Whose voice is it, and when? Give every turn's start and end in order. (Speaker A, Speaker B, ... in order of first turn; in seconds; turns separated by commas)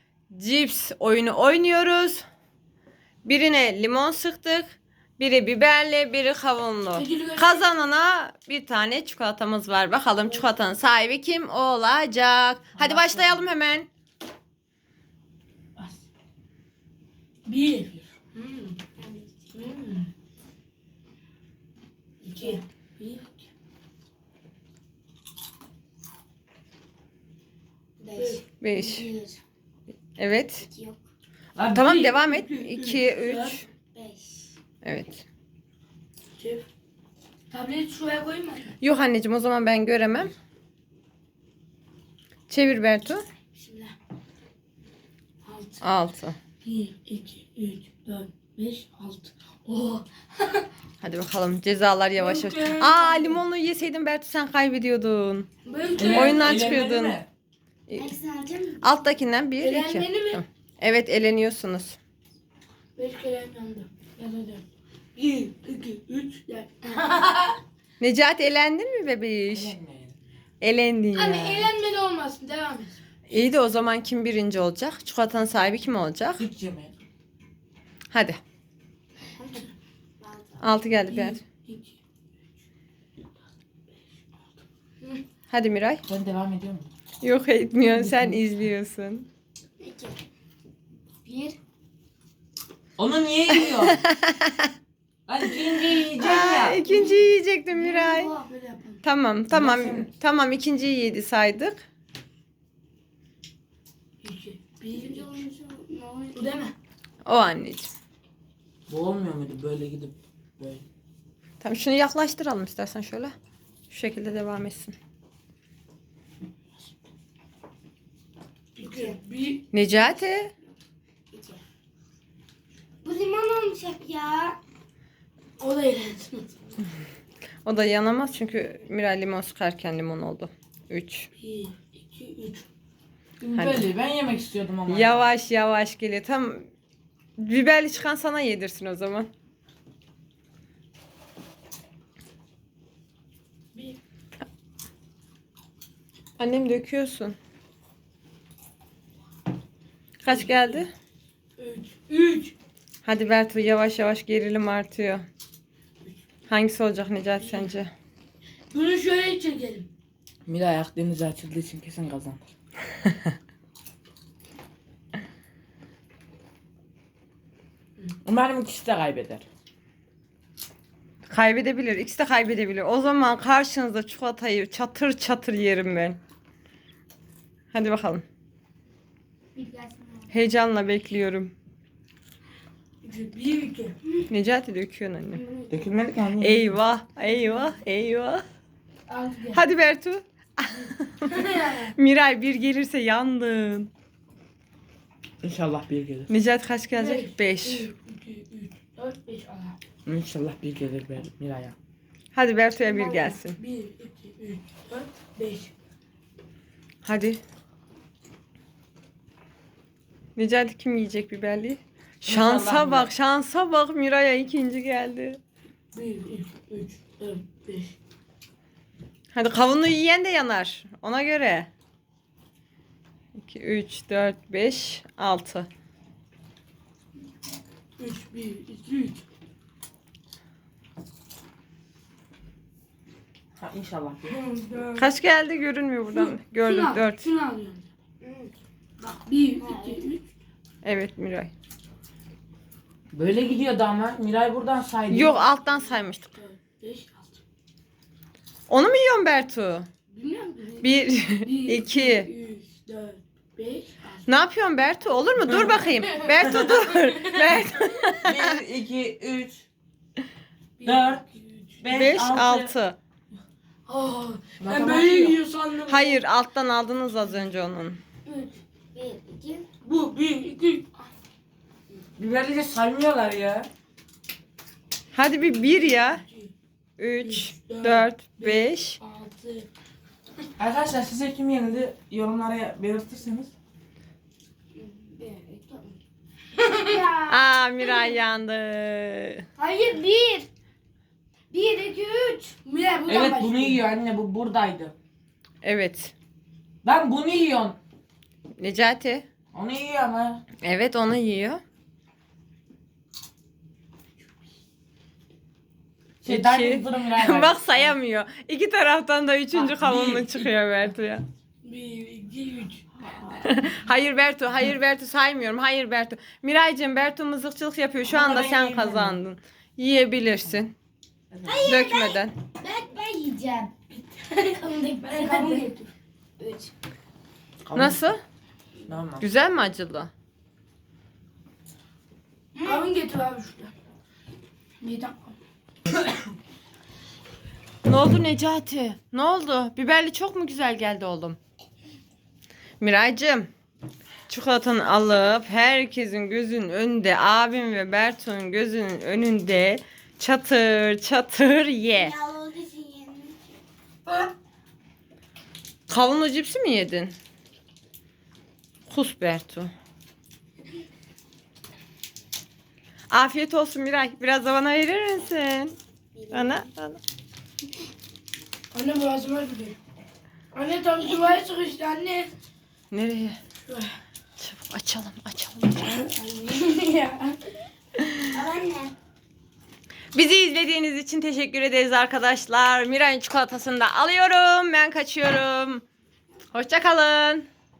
Speaker A: 0.3-2.2, Speaker A: 3.2-13.9, Speaker B: 6.9-7.7, Speaker B: 12.8-13.3, Speaker B: 17.5-18.8, Speaker C: 19.0-19.8, Speaker B: 19.5-20.1, Speaker B: 22.2-23.4, Speaker C: 28.0-29.4, Speaker B: 28.2-28.4, Speaker A: 28.6-29.1, Speaker A: 30.2-30.7, Speaker C: 30.6-31.0, Speaker D: 31.6-32.2, Speaker A: 31.7-33.6, Speaker B: 32.1-33.6, Speaker C: 33.8-34.6, Speaker A: 34.8-35.2, Speaker B: 36.4-36.6, Speaker B: 37.5-38.7, Speaker A: 38.8-40.3, Speaker A: 42.5-43.2, Speaker B: 43.6-43.9, Speaker B: 45.5-45.8, Speaker A: 45.8-46.4, Speaker B: 46.6-50.7, Speaker A: 51.0-55.5, Speaker B: 52.2-53.4, Speaker B: 55.6-56.7, Speaker D: 56.0-57.3, Speaker A: 56.0-57.2, Speaker A: 57.9-58.1, Speaker C: 58.0-58.8, Speaker A: 58.8-62.0, Speaker B: 59.6-60.4, Speaker B: 63.0-64.6, Speaker B: 65.2-67.6, Speaker A: 68.0-69.8, Speaker D: 69.5-70.2, Speaker A: 70.6-71.7, Speaker B: 71.1-73.0, Speaker A: 73.3-76.5, Speaker D: 76.4-77.0, Speaker A: 78.1-78.4, Speaker B: 79.4-79.7, Speaker C: 80.2-80.8, Speaker A: 80.6-81.4, Speaker B: 81.1-82.0, Speaker A: 85.5-86.0, Speaker D: 86.1-86.9, Speaker A: 87.2-89.3, Speaker D: 87.8-88.5, Speaker C: 89.8-90.2, Speaker C: 91.2-91.6, Speaker D: 93.0-94.0, Speaker A: 93.7-94.7, Speaker D: 95.3-96.8, Speaker A: 96.2-98.3, Speaker C: 96.7-98.5, Speaker B: 98.4-99.0, Speaker A: 99.0-101.8, Speaker D: 99.5-100.1, Speaker B: 104.2-105.5, Speaker C: 104.9-106.6, Speaker B: 106.3-106.7, Speaker A: 107.2-107.9, Speaker D: 108.9-110.8, Speaker A: 111.6-113.3, Speaker A: 113.9-115.0, Speaker B: 118.8-119.7, Speaker A: 119.7-120.5, Speaker C: 121.3-121.6, Speaker C: 123.0-124.6, Speaker B: 125.6-126.5, Speaker A: 127.7-131.3, Speaker B: 131.4-132.7, Speaker D: 133.4-135.3, Speaker A: 133.6-133.9, Speaker A: 134.9-136.7, Speaker A: 137.4-139.3, Speaker A: 146.4-147.4, Speaker A: 150.2-150.9, Speaker B: 150.3-150.8, Speaker B: 151.6-152.5, Speaker A: 153.1-155.2, Speaker A: 156.5-157.9, Speaker B: 158.7-159.9, Speaker D: 160.5-162.4, Speaker D: 168.2-169.4, Speaker A: 171.3-176.2, Speaker A: 177.7-178.2, Speaker C: 179.6-180.3, Speaker A: 180.3-181.5, Speaker B: 183.0-184.2, Speaker A: 184.3-185.4, Speaker C: 185.4-185.7, Speaker D: 185.7-186.8, Speaker A: 186.4-188.4, Speaker B: 189.1-189.6, Speaker A: 189.5-191.3, Speaker B: 191.2-191.9, Speaker A: 191.9-193.9, Speaker D: 195.4-196.3, Speaker A: 196.3-197.9, Speaker B: 196.9-199.8, Speaker D: 200.1-201.8, Speaker A: 202.3-203.6, Speaker B: 202.8-205.7, Speaker A: 207.0-207.4, Speaker A: 210.4-215.4, Speaker D: 212.2-213.1, Speaker B: 215.9-217.9, Speaker A: 219.3-221.7, Speaker A: 223.4-225.7, Speaker B: 228.0-229.2, Speaker D: 233.6-234.4, Speaker B: 234.3-235.1, Speaker A: 235.0-237.2, Speaker B: 236.1-237.8, Speaker C: 238.2-238.5, Speaker B: 239.0-240.2, Speaker C: 239.6-240.1, Speaker A: 240.8-241.5, Speaker D: 243.1-245.4, Speaker A: 245.1-246.4, Speaker B: 245.5-247.4, Speaker A: 248.7-249.9, Speaker B: 250.1-254.3, Speaker A: 250.8-252.3, Speaker A: 254.3-258.5, Speaker B: 256.1-257.6, Speaker D: 258.2-259.6, Speaker B: 260.8-261.9, Speaker D: 260.9-261.2, Speaker D: 261.8-262.7, Speaker A: 261.9-263.0, Speaker B: 263.9-266.2, Speaker D: 264.6-265.4, Speaker A: 265.9-268.0, Speaker C: 268.3-269.7, Speaker B: 269.8-271.1, Speaker D: 272.2-273.7, Speaker A: 275.1-276.2, Speaker B: 275.4-276.5, Speaker A: 277.0-279.0, Speaker B: 277.2-279.7, Speaker D: 280.6-283.5, Speaker C: 284.8-285.9, Speaker B: 286.6-287.1, Speaker C: 286.8-288.1, Speaker A: 287.3-289.4, Speaker C: 289.6-290.5, Speaker C: 291.5-292.6, Speaker B: 292.6-293.8, Speaker D: 293.1-294.9, Speaker A: 295.6-296.1, Speaker D: 296.8-297.8, Speaker A: 298.6-299.3, Speaker D: 299.5-300.4, Speaker A: 300.6-301.6, Speaker D: 306.2-307.9, Speaker A: 306.2-311.2, Speaker D: 309.5-310.5, Speaker B: 311.6-312.8, Speaker D: 313.0-313.7, Speaker A: 313.4-320.7, Speaker D: 318.1-319.2, Speaker D: 321.3-321.6, Speaker C: 321.5-323.8, Speaker A: 321.6-322.3, Speaker B: 323.9-325.9, Speaker C: 324.6-325.7, Speaker C: 326.4-326.7, Speaker D: 327.7-328.0, Speaker A: 327.7-328.2, Speaker D: 328.9-329.3, Speaker A: 329.2-330.1, Speaker B: 332.6-333.7, Speaker C: 332.6-332.9, Speaker B: 334.8-335.4, Speaker A: 337.9-341.4, Speaker A: 342.8-343.5, Speaker A: 344.3-352.2, Speaker C: 351.9-353.4, Speaker A: 355.9-357.1, Speaker A: 358.9-359.7, Speaker A: 363.1-365.8, Speaker C: 366.2-366.7, Speaker A: 366.3-367.0, Speaker B: 368.7-369.8, Speaker B: 370.5-372.3, Speaker A: 372.9-373.4, Speaker B: 373.7-373.9, Speaker A: 374.4-376.0, Speaker B: 375.8-377.4, Speaker C: 378.3-378.9, Speaker A: 380.1-385.8, Speaker A: 386.5-387.5